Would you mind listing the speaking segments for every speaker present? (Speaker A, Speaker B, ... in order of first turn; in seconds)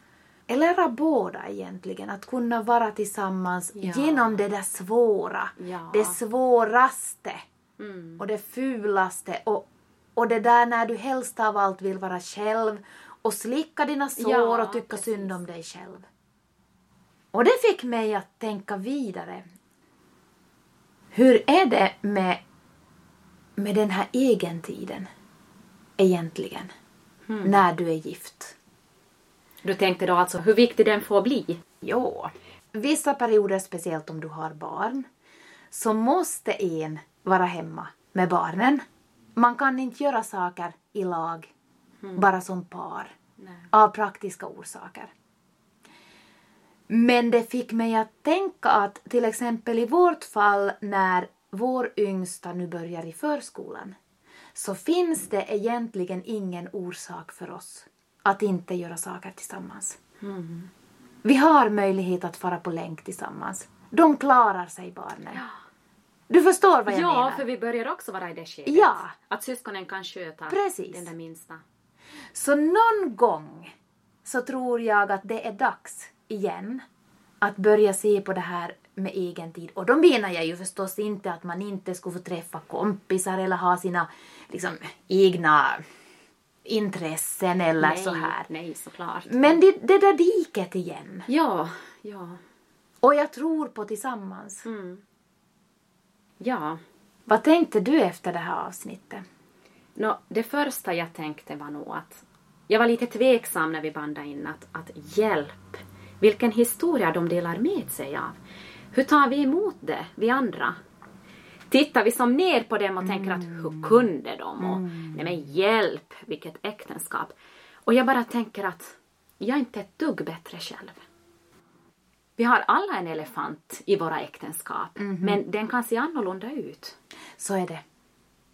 Speaker A: 0.5-7.4, 8.2-16.1, 17.3-19.4, 21.1-22.4, 23.6-25.1, 26.0-26.7, 27.4-28.6, 31.8-35.1, 35.7-38.8, 39.4-41.5, 42.2-43.1, 43.7-45.1, 46.9-53.9, 54.5-60.0, 61.2-65.4, 66.3-67.4, 68.7-69.1, 70.5-71.1, 72.3-73.7, 74.2-76.8, 77.4-85.8, 86.6-88.5, 89.3-91.3, 93.0-94.7, 97.3-99.2, 113.0-113.9, 114.6-115.2, 125.0-125.4, 127.4-127.8
Speaker B: 3.8-4.4, 5.6-6.2, 7.8-8.2, 14.2-15.4, 27.3-27.6, 29.6-31.6, 42.0-42.3, 43.4-43.7, 60.2-60.7, 66.9-71.6, 87.8-89.6, 91.3-92.4, 94.6-95.0, 96.4-96.8, 100.0-108.3, 108.9-110.8, 111.7-117.3, 117.8-121.0, 122.4-127.0